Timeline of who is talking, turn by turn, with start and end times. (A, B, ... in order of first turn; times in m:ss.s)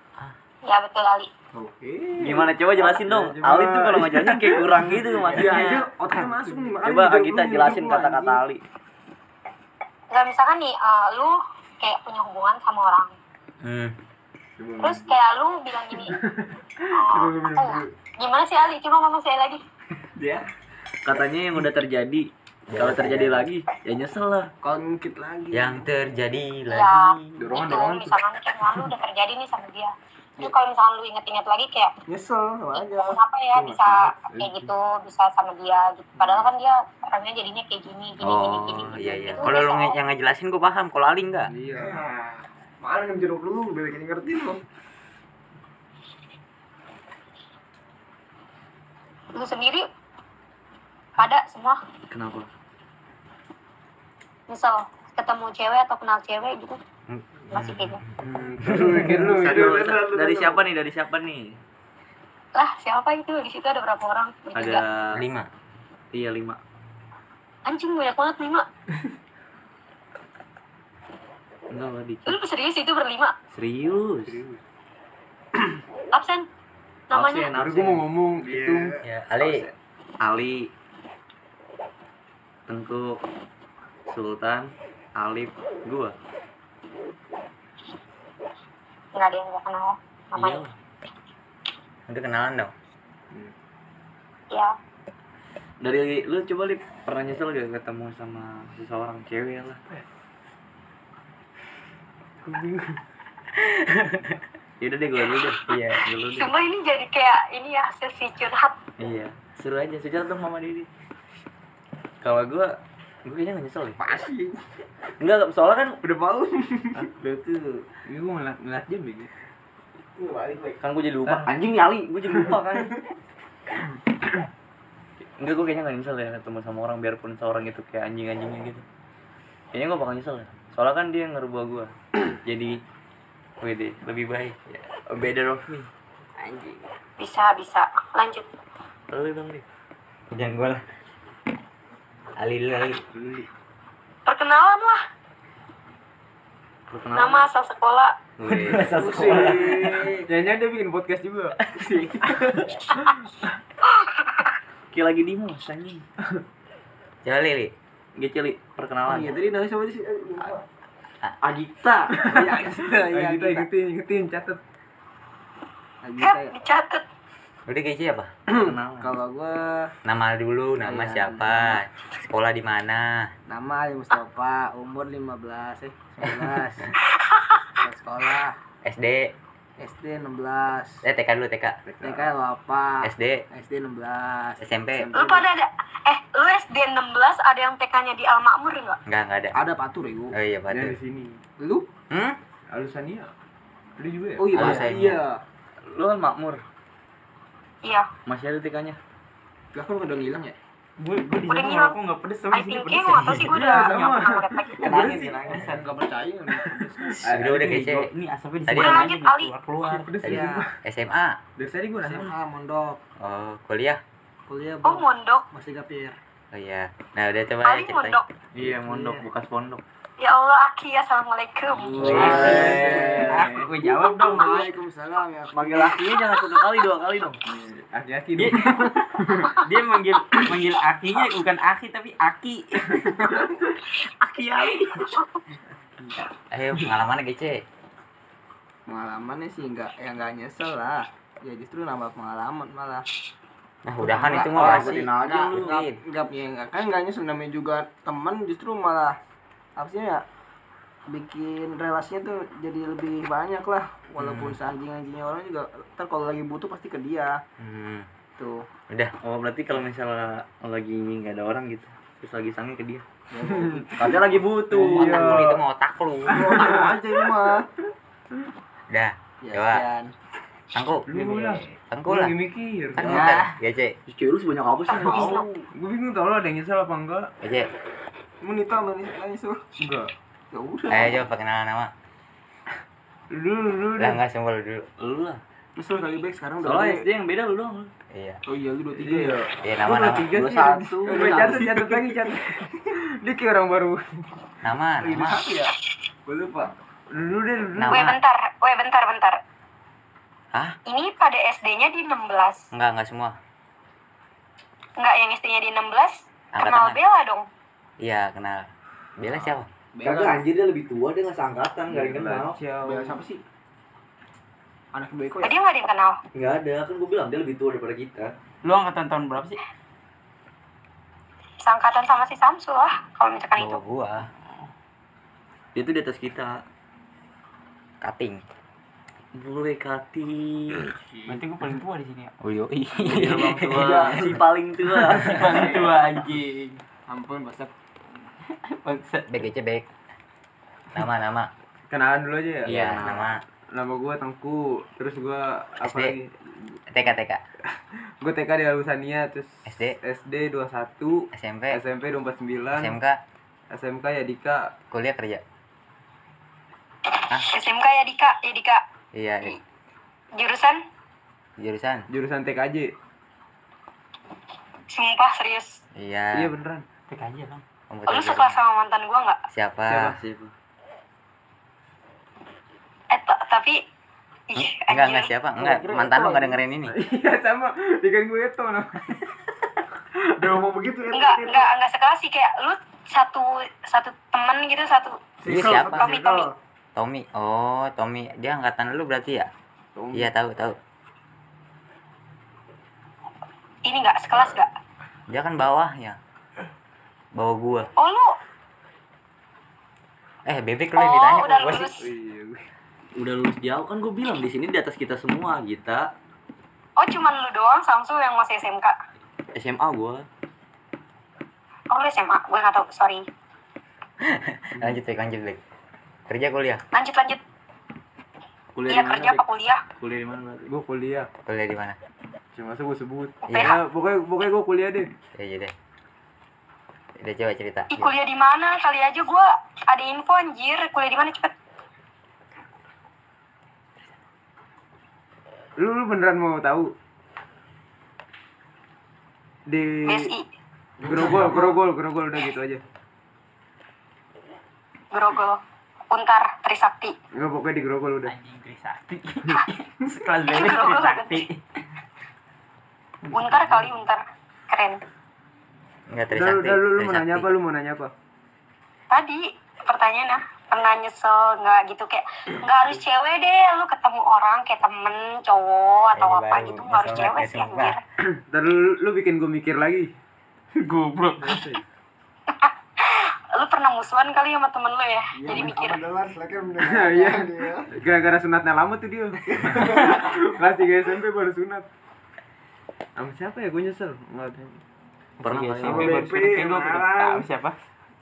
0:00.7-0:01.3 A
0:01.5-0:02.5 B
0:02.2-0:05.9 C
0:02.2-0:06.8 D
0:05.3-0:08.4 B
0:06.8-0:08.6 C
0:10.1-0:13.2 A
0:13.6-0:14.0 E
0:14.6-0:15.1 D
0:14.8-0:16.2 A
0:16.2-0:17.8 D
0:16.9-0:19.6 A
0:20.2-0:20.5 C
0:21.0-0:24.5 C
0:22.7-0:23.5 E
0:24.6-0:25.9 B
0:25.5-0:27.4 E
0:26.7-0:31.9 A
0:27.4-0:28.2 D
0:32.1-0:33.2 B
0:32.8-0:40.0 A
0:33.5-0:34.7 D
0:38.2-0:41.5 E
0:41.5-0:42.0 D
0:41.7-0:44.6 B
0:49.4-0:49.9 A
0:51.2-0:51.8 A
0:52.1-0:52.5 C
0:54.5-0:56.8 A
0:57.1-0:58.1 E
0:57.5-0:58.0 A
0:58.2-0:59.9 D
0:58.6-0:59.2 E
0:59.0-1:00.6 B
0:59.3-1:01.6 C
1:02.6-1:04.8 A
1:04.6-1:05.2 C
1:05.1-1:05.5 E
1:06.1-1:06.6 C
1:07.7-1:08.7 A
1:11.7-1:12.4 C
1:12.3-1:13.3 A
1:13.5-1:14.4 C
1:14.2-1:14.6 D
1:16.1-1:16.5 A
1:17.1-1:17.5 A
1:17.1-1:18.1 C
1:17.5-1:19.0 D
1:18.4-1:19.0 B
1:19.0-1:19.7 E
1:19.4-1:20.7 C
1:22.7-1:23.2 C
1:24.1-1:26.2 C
1:29.2-1:30.6 A
1:30.4-1:30.7 C
1:32.1-1:32.7 E
1:35.8-1:39.8 C
1:42.5-1:42.8 D
1:43.6-1:44.4 E
1:44.8-1:46.5 C
1:45.7-1:46.0 E
1:46.3-1:48.8 A
1:49.0-1:50.9 C
1:52.2-1:54.0 C
1:54.0-1:54.7 B
1:55.2-1:56.0 C
1:56.0-1:57.9 B
1:58.1-1:59.3 D
2:00.2-2:00.8 B
2:00.8-2:02.9 C
2:05.4-2:08.8 C
2:09.7-2:12.8 C
2:13.6-2:15.9 C
2:16.4-2:16.9 F
2:17.2-2:18.5 A
2:19.1-2:19.6 C
2:20.3-2:20.8 E
2:22.4-2:23.0 E
2:23.2-2:23.4 D
2:24.3-2:25.0 A
2:26.9-2:27.5 C
2:27.1-2:28.2 A
2:28.4-2:29.0 E
2:28.6-2:30.2 C
2:28.7-2:30.3 B
2:28.9-2:33.5 D
2:31.6-2:31.9 C
2:31.8-2:32.1 B
2:33.8-2:34.5 A
2:34.9-2:36.0 C
2:37.2-2:37.7 E
2:38.2-2:39.4 C
2:39.1-2:40.6 B
2:41.4-2:42.5 C
2:42.2-2:44.6 D
2:42.3-2:43.7 B
2:46.0-2:46.6 B
2:46.2-2:47.0 A
2:47.7-2:48.3 E
2:48.5-2:49.9 B
2:48.5-2:49.2 C
2:50.0-2:53.3 E
2:50.9-2:51.8 B
2:53.5-2:56.9 B
2:57.2-2:57.8 A
2:57.8-2:58.6 B
2:58.8-2:59.3 E
2:59.8-3:01.0 B
3:01.0-3:01.8 E
3:01.8-3:02.3 D
3:02.0-3:05.5 B
3:03.0-3:03.4 E
3:04.6-3:05.1 E
3:05.1-3:09.0 A
3:09.1-3:09.6 E
3:09.5-3:10.3 B
3:10.3-3:11.0 E
3:10.7-3:11.4 D
3:11.6-3:11.9 B
3:12.1-3:12.4 E
3:12.7-3:13.3 D
3:14.0-3:14.9 D
3:14.4-3:15.4 B
3:14.5-3:15.2 E
3:15.9-3:16.6 C
3:18.3-3:19.0 C
3:19.7-3:20.6 B
3:21.0-3:23.8 F
3:21.5-3:22.0 A
3:22.5-3:25.0 A
3:23.4-3:25.6 D
3:24.8-3:25.9 C
3:24.9-3:27.3 B
3:26.6-3:27.8 D
3:27.3-3:28.1 E
3:27.4-3:30.2 F
3:28.7-3:29.1 E
3:28.8-3:29.5 A
3:29.9-3:30.7 D
3:30.2-3:30.6 B
3:30.2-3:31.4 E
3:31.6-3:32.3 D
3:32.0-3:33.0 B
3:33.2-3:34.0 E
3:34.5-3:36.2 B
3:34.8-3:35.5 A
3:36.5-3:38.2 E
3:37.6-3:38.2 A
3:38.6-3:39.8 C
3:38.6-3:39.3 B
3:40.2-3:42.0 A
3:41.9-3:43.7 C
3:42.0-3:46.1 B
3:42.0-3:42.6 E
3:42.0-3:43.1 D
3:42.1-3:44.7 F
3:45.5-3:47.4 C
3:46.3-3:46.6 A
3:47.5-3:49.6 D
3:48.4-3:48.8 F
3:49.6-3:53.3 F
3:54.2-3:55.1 C
3:56.5-3:57.6 E
3:58.9-4:03.0 B
4:03.8-4:06.0 E
4:04.0-4:09.2 B
4:04.6-4:05.8 C
4:09.8-4:10.2 B
4:11.1-4:17.4 B
4:14.2-4:14.6 E
4:17.6-4:18.1 E
4:18.4-4:18.7 B
4:19.2-4:23.0 C
4:23.3-4:25.5 B
4:23.4-4:24.1 D
4:24.0-4:25.5 C
4:24.7-4:25.6 D
4:24.8-4:26.6 E
4:26.3-4:27.7 B
4:26.3-4:27.1 D
4:28.9-4:29.8 E
4:29.4-4:30.1 B
4:30.7-4:31.1 E
4:31.1-4:33.2 D
4:31.9-4:32.4 E
4:32.9-4:34.0 E
4:33.0-4:33.5 C
4:34.1-4:35.7 C
4:34.9-4:35.5 A
4:35.0-4:37.3 D
4:37.4-4:37.7 E
4:38.4-4:39.7 B
4:39.8-4:40.1 D
4:40.5-4:41.2 B
4:40.9-4:41.9 E
4:43.3-4:44.2 D
4:44.0-4:44.9 E
4:45.0-4:45.4 C
4:45.8-4:47.1 B
4:46.6-4:47.9 C
4:48.1-4:48.4 E
4:48.5-4:49.4 B
4:48.9-4:54.3 D
4:49.6-4:50.3 E
4:50.3-4:51.9 C
4:50.6-4:52.3 B
4:54.6-4:55.4 E
4:55.0-4:55.7 B
4:56.3-4:56.7 B
4:57.1-4:58.1 D
4:57.8-4:58.2 E
4:57.9-4:59.4 A
5:00.9-5:02.7 A
5:02.7-5:03.4 E
5:05.0-5:07.5 A
5:06.5-5:07.0 E
5:08.0-5:09.7 E
5:10.0-5:10.4 B
5:10.0-5:12.6 C
5:11.9-5:13.2 D
5:12.7-5:13.4 B
5:14.9-5:15.6 B
5:15.4-5:16.2 A
5:16.3-5:18.3 C
5:18.6-5:19.6 F
5:21.6-5:23.8 A
5:23.6-5:24.3 E
5:25.8-5:26.6 C
5:28.0-5:28.4 E
5:29.3-5:30.9 C
5:31.3-5:32.4 F
5:32.4-5:34.4 E
5:33.0-5:35.8 C
5:33.9-5:34.3 B
5:35.1-5:36.8 F
5:37.1-5:37.7 B
5:38.5-5:39.4 F
5:39.3-5:39.8 E
5:40.9-5:41.5 E
5:41.9-5:42.9 D
5:42.6-5:43.3 C
5:42.7-5:43.4 E
5:43.7-5:46.8 D
5:45.8-5:46.2 E
5:46.9-5:47.4 E
5:47.7-5:53.0 D
5:49.7-5:50.0 E
5:51.3-5:51.8 E
5:52.8-5:53.2 E
5:53.7-5:54.7 D
5:54.9-5:55.4 E
5:57.4-5:58.8 A
5:59.1-5:59.6 E
6:00.4-6:00.8 A
6:01.6-6:02.1 E
6:02.1-6:02.9 D
6:04.9-6:05.8 A
6:06.0-6:06.5 E
6:06.3-6:06.9 D
6:07.1-6:07.6 F
6:07.9-6:08.6 E
6:08.1-6:09.4 A
6:09.5-6:10.2 E
6:09.9-6:10.5 C
6:13.1-6:13.8 A
6:14.5-6:15.3 A
6:14.6-6:17.0 E
6:15.6-6:16.6 B
6:16.9-6:19.3 D
6:20.4-6:21.7 B
6:21.1-6:26.5 A
6:25.4-6:26.5 B
6:25.5-6:26.2 E
6:27.0-6:29.5 E
6:30.0-6:30.3 D
6:30.1-6:30.8 E
6:33.8-6:34.7 A
6:35.3-6:36.2 E
6:37.4-6:37.9 E
6:38.0-6:38.4 A
6:40.4-6:42.0 E
6:41.0-6:42.1 A
6:42.0-6:42.7 D
6:43.2-6:46.1 C
6:47.0-6:49.0 A
6:49.6-6:50.3 C
6:51.9-6:53.2 A
6:54.2-6:55.6 E
6:56.3-6:56.8 E
6:56.9-6:57.4 A
6:58.8-6:59.4 C
6:58.9-6:59.8 A
7:00.0-7:00.7 C
7:00.7-7:01.3 D
7:01.5-7:02.0 E
7:02.5-7:05.1 D
7:03.5-7:03.8 A
7:03.5-7:03.8 E
7:05.3-7:05.7 E
7:07.2-7:08.1 E
7:07.9-7:11.5 A
7:15.8-7:16.9 D
7:19.7-7:20.3 D
7:20.0-7:20.5 A
7:21.0-7:22.8 D
7:21.1-7:21.6 B
7:25.1-7:25.6 A
7:26.1-7:27.2 A
7:27.4-7:28.4 D
7:28.3-7:31.6 F
7:30.5-7:31.4 A
7:33.2-7:33.9 F
7:33.3-7:35.0 A
7:36.1-7:37.5 E
7:36.3-7:38.1 D
7:39.1-7:48.0 A
7:46.1-7:48.0 E
7:48.4-7:50.1 D
7:50.8-7:51.8 F
7:51.4-7:51.8 D
7:52.5-7:56.0 A
7:55.4-7:57.9 B
7:56.8-8:01.9 D
7:59.5-8:00.4 B
8:03.2-8:04.8 D
8:05.4-8:07.8 F
8:05.5-8:06.1 C
8:05.6-8:06.5 D
8:05.8-8:07.4 B